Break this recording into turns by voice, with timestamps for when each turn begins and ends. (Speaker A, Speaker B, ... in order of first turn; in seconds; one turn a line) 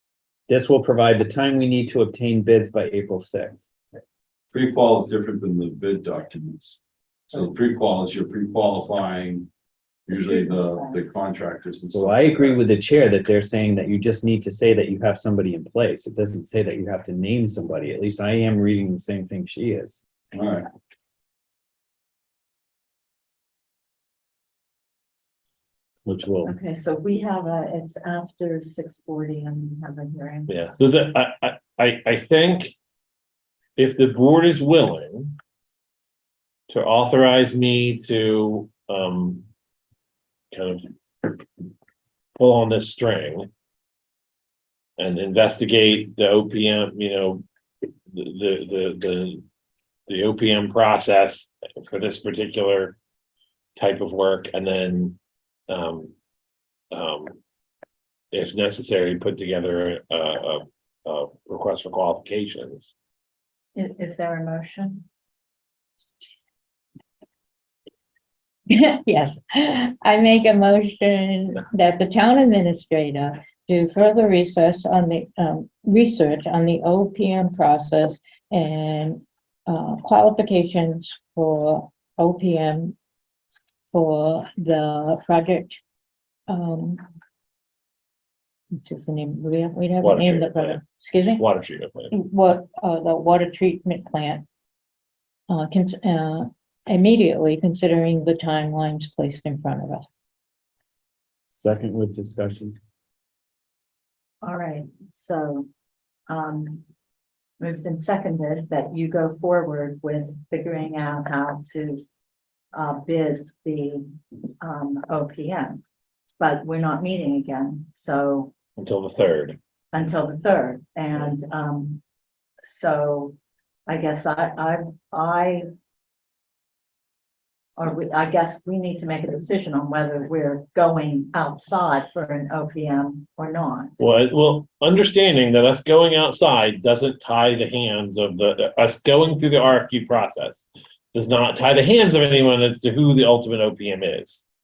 Speaker A: 0.5-3.7
Speaker B: 4.5-6.8
Speaker B: 7.3-9.5
Speaker B: 10.1-12.6
Speaker C: 10.2-11.0
Speaker A: 11.8-20.0
Speaker B: 20.3-20.7
Speaker A: 26.1-26.5
Speaker C: 26.4-30.5
Speaker D: 30.5-32.7
Speaker D: 33.8-35.4
Speaker D: 36.7-39.5
Speaker D: 40.5-41.4
Speaker D: 42.4-43.5
Speaker D: 45.0-47.4
Speaker D: 48.1-49.4
Speaker D: 50.1-53.0
Speaker D: 53.8-55.2
Speaker D: 55.7-56.1
Speaker D: 56.9-57.3
Speaker D: 58.3-62.9
Speaker C: 63.7-65.0
Speaker E: 68.7-82.9
Speaker E: 83.9-85.8
Speaker E: 86.5-87.0
Speaker E: 88.7-91.4
Speaker D: 90.0-90.8
Speaker D: 91.4-92.1
Speaker E: 92.1-94.4
Speaker E: 95.5-100.1
Speaker A: 101.5-102.8
Speaker C: 104.4-105.7
Speaker C: 106.3-106.8
Speaker C: 107.6-112.0
Speaker C: 112.7-114.0
Speaker C: 114.6-115.8
Speaker C: 116.4-118.5
Speaker D: 118.8-119.6
Speaker C: 119.9-122.0
Speaker C: 122.6-125.7
Speaker C: 127.8-134.0
Speaker D: 134.0-144.4